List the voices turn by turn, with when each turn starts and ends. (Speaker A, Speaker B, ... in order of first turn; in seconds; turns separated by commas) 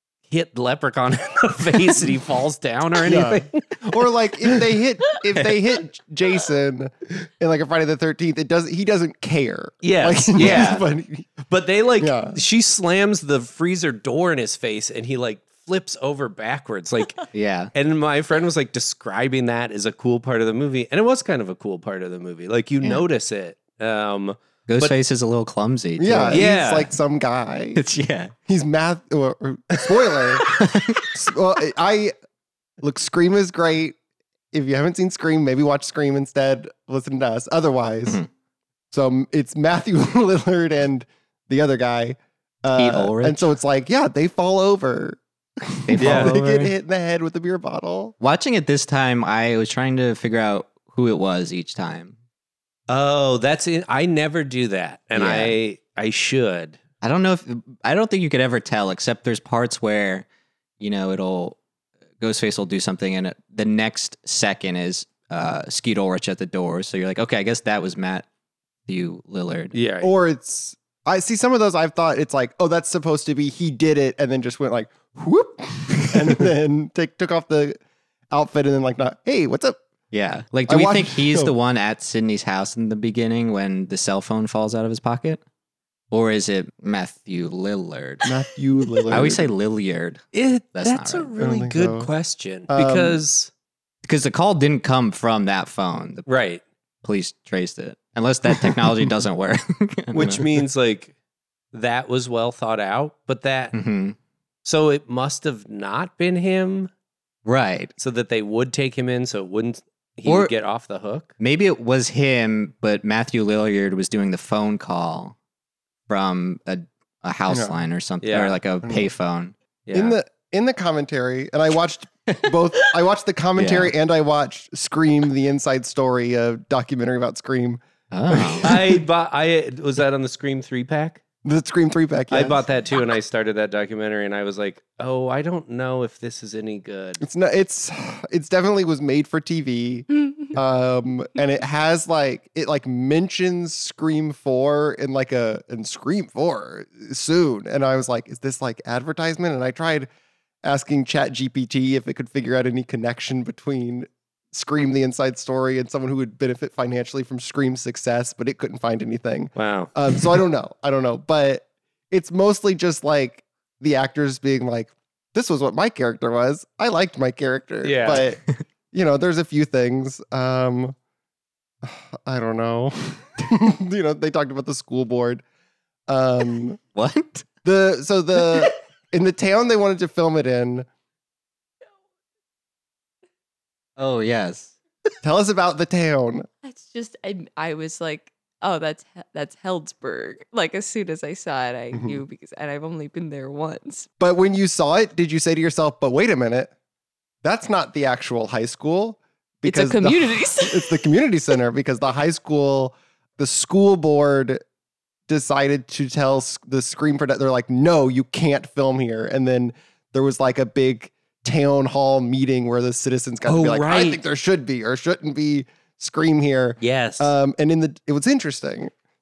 Speaker A: 0.3-4.6, Speaker B: 3.0-11.3, Speaker A: 9.8-10.8, Speaker C: 10.4-10.8, Speaker A: 11.5-24.9, Speaker B: 12.0-12.4, Speaker C: 17.3-17.7, Speaker C: 24.7-26.5, Speaker B: 26.0-27.8, Speaker A: 26.3-26.9, Speaker C: 27.8-28.3, Speaker B: 28.5-32.1, Speaker C: 30.4-31.1, Speaker B: 32.8-33.9, Speaker B: 34.5-38.2, Speaker B: 38.9-48.1, Speaker C: 42.7-43.5, Speaker C: 45.9-46.7, Speaker A: 46.0-46.4, Speaker C: 48.2-52.1, Speaker A: 52.9-56.8, Speaker C: 55.1-55.5, Speaker C: 57.0-60.2, Speaker C: 60.8-61.6, Speaker C: 62.2-68.2, Speaker C: 68.9-69.7, Speaker A: 69.7-70.1, Speaker B: 70.0-77.8, Speaker B: 78.3-79.8, Speaker C: 80.1-85.4, Speaker B: 80.7-81.5, Speaker C: 86.1-88.3, Speaker B: 88.2-89.5, Speaker C: 89.1-91.3, Speaker A: 90.3-93.5, Speaker B: 91.4-92.1, Speaker B: 92.7-93.2, Speaker C: 94.0-96.2, Speaker A: 96.2-96.6, Speaker C: 97.0-100.5, Speaker A: 100.1-101.1, Speaker A: 101.7-103.7, Speaker C: 103.7-104.2, Speaker A: 104.6-106.9, Speaker C: 107.4-107.9, Speaker A: 108.0-111.3, Speaker C: 110.2-110.5, Speaker C: 111.4-115.3, Speaker C: 116.1-119.5, Speaker B: 117.5-117.7, Speaker A: 118.2-118.5, Speaker B: 118.8-119.1, Speaker A: 119.9-120.2, Speaker B: 119.9-129.0, Speaker C: 123.5-123.9, Speaker C: 128.1-128.8, Speaker A: 128.6-131.2, Speaker B: 131.4-132.6, Speaker A: 132.3-137.2, Speaker B: 137.2-150.1, Speaker B: 150.6-170.9, Speaker A: 159.6-159.9, Speaker A: 167.8-168.2, Speaker B: 171.8-175.4, Speaker B: 176.1-176.8, Speaker C: 176.9-177.4, Speaker B: 177.6-180.9, Speaker C: 184.0-184.8, Speaker B: 185.2-186.5, Speaker D: 186.6-194.1, Speaker B: 191.9-192.2, Speaker B: 194.2-196.7, Speaker B: 197.4-204.6, Speaker D: 199.6-201.1, Speaker B: 205.3-218.9, Speaker A: 213.4-214.2, Speaker A: 216.8-217.3